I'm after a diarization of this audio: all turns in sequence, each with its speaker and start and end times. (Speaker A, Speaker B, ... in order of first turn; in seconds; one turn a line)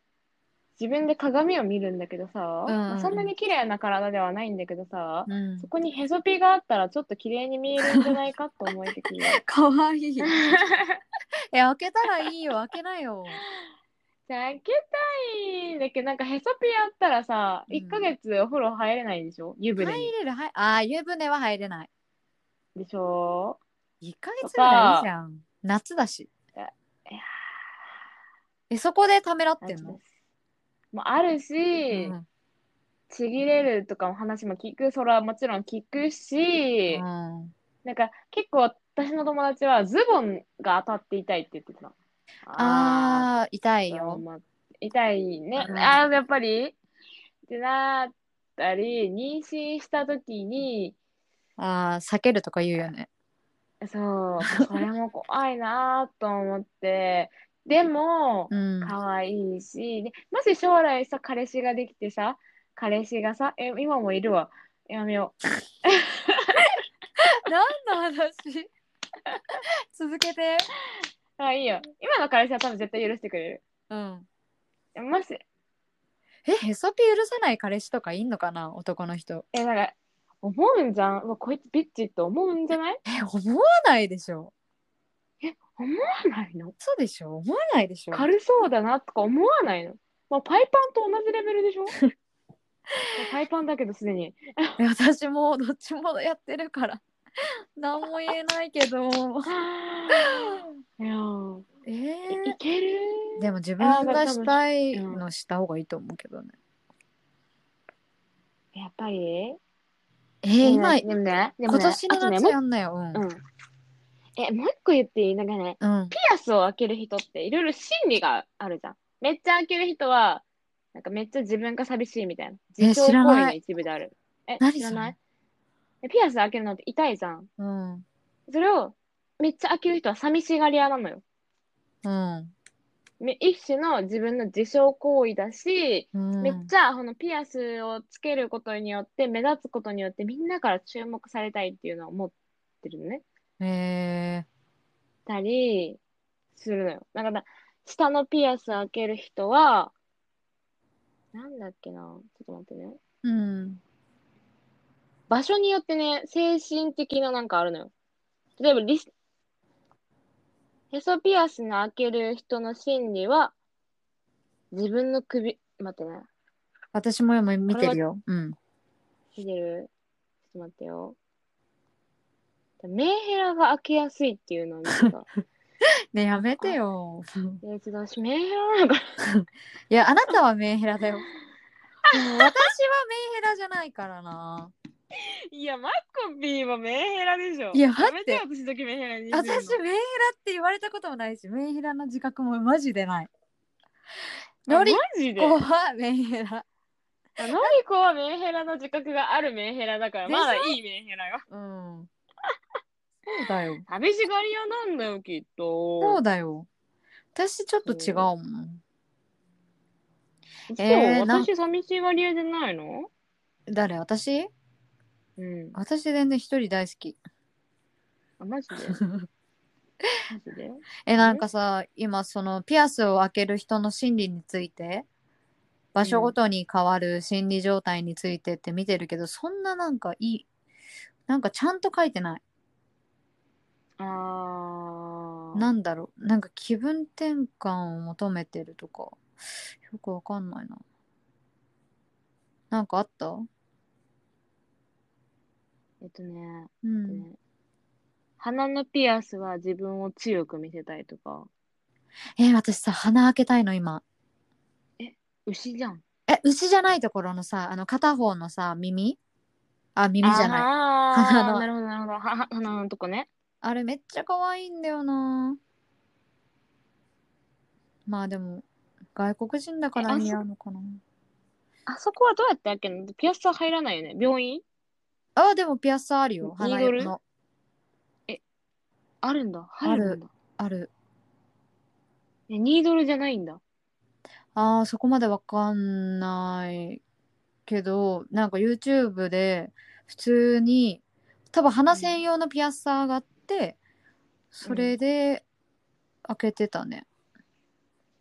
Speaker A: 0.8-9.4
Speaker B: 2.7-3.3
Speaker B: 5.3-5.7
Speaker B: 9.4-10.6
Speaker A: 10.2-11.0
Speaker B: 11.5-13.4
Speaker A: 14.3-20.1
Speaker B: 17.7-18.1
Speaker B: 19.8-21.9
Speaker A: 22.8-23.6
Speaker B: 24.0-26.3
Speaker A: 24.4-25.1
Speaker A: 26.6-27.4
Speaker B: 28.7-30.0
Speaker A: 29.6-30.1
Speaker A: 30.9-32.2
Speaker B: 31.9-32.2
Speaker A: 33.1-37.0
Speaker B: 36.9-37.5
Speaker A: 37.8-41.9
Speaker A: 42.5-43.3
Speaker B: 42.6-44.2
Speaker A: 43.9-46.8
Speaker B: 45.6-46.0
Speaker A: 47.5-51.0
Speaker B: 51.6-53.1
Speaker A: 53.8-66.8
Speaker B: 58.5-58.9
Speaker B: 67.5-68.7
Speaker B: 69.9-70.7
Speaker A: 71.4-73.6
Speaker B: 73.9-74.3
Speaker A: 75.0-75.4
Speaker B: 76.5-79.5
Speaker A: 79.5-83.0
Speaker B: 83.1-84.5
Speaker A: 85.4-86.8
Speaker B: 86.8-88.3
Speaker A: 88.1-92.0
Speaker A: 93.2-94.8
Speaker B: 94.8-99.5
Speaker A: 99.5-101.7
Speaker B: 101.9-102.6
Speaker A: 102.3-105.2
Speaker B: 103.4-106.5
Speaker A: 108.8-109.6
Speaker B: 110.4-111.0
Speaker A: 110.6-112.6
Speaker B: 111.7-113.2
Speaker A: 113.1-113.4
Speaker A: 114.4-120.4
Speaker B: 115.8-116.1
Speaker A: 121.0-125.2
Speaker B: 122.8-123.6
Speaker B: 124.6-125.2
Speaker A: 126.0-127.5
Speaker B: 127.6-128.1
Speaker A: 128.5-131.2
Speaker B: 132.0-132.5
Speaker A: 133.2-143.2
Speaker B: 136.2-136.7
Speaker B: 143.6-144.5
Speaker A: 145.3-146.0
Speaker A: 146.6-149.9
Speaker A: 151.3-153.0
Speaker B: 153.2-153.8
Speaker A: 155.3-157.9
Speaker A: 158.6-159.1
Speaker A: 160.9-163.5
Speaker A: 164.7-166.3
Speaker B: 166.9-168.6
Speaker A: 167.7-168.0
Speaker A: 169.4-169.9
Speaker A: 170.5-171.2
Speaker A: 172.8-175.3
Speaker B: 176.1-177.6
Speaker A: 177.6-179.2
Speaker B: 179.3-181.3
Speaker B: 182.1-184.7
Speaker A: 182.2-182.5
Speaker A: 185.5-189.8
Speaker B: 187.7-188.4
Speaker B: 189.3-193.3
Speaker B: 194.7-196.7
Speaker A: 194.7-195.6
Speaker A: 197.4-201.4
Speaker B: 200.3-200.8
Speaker B: 201.5-202.1
Speaker B: 203.3-203.8
Speaker A: 203.9-206.2
Speaker B: 206.0-206.7
Speaker B: 207.3-208.8
Speaker A: 207.8-208.3
Speaker A: 210.7-213.1
Speaker B: 210.8-211.5
Speaker B: 213.7-214.5
Speaker A: 215.4-215.8
Speaker B: 215.8-217.2
Speaker A: 218.4-219.0
Speaker B: 219.0-219.3
Speaker A: 220.3-221.4
Speaker B: 221.1-225.1
Speaker B: 225.9-230.5
Speaker A: 226.0-226.3
Speaker B: 231.3-232.4
Speaker A: 234.0-235.7
Speaker B: 235.6-239.2
Speaker B: 239.8-240.8
Speaker B: 242.7-243.5
Speaker A: 246.0-247.4
Speaker B: 246.8-247.3
Speaker A: 248.4-251.5
Speaker B: 252.4-254.0
Speaker A: 255.0-256.0
Speaker B: 256.3-259.2
Speaker B: 260.0-261.7
Speaker A: 260.2-263.3
Speaker B: 263.6-265.6
Speaker B: 268.1-271.0
Speaker A: 270.0-270.4
Speaker A: 271.9-274.6
Speaker B: 275.4-277.2
Speaker A: 276.4-277.1
Speaker A: 279.2-280.3
Speaker B: 279.8-280.9
Speaker A: 282.5-283.6
Speaker B: 284.6-287.0
Speaker B: 287.7-291.0
Speaker B: 291.5-293.8
Speaker A: 291.9-292.2
Speaker B: 294.5-295.4
Speaker A: 294.6-294.9
Speaker B: 296.3-297.1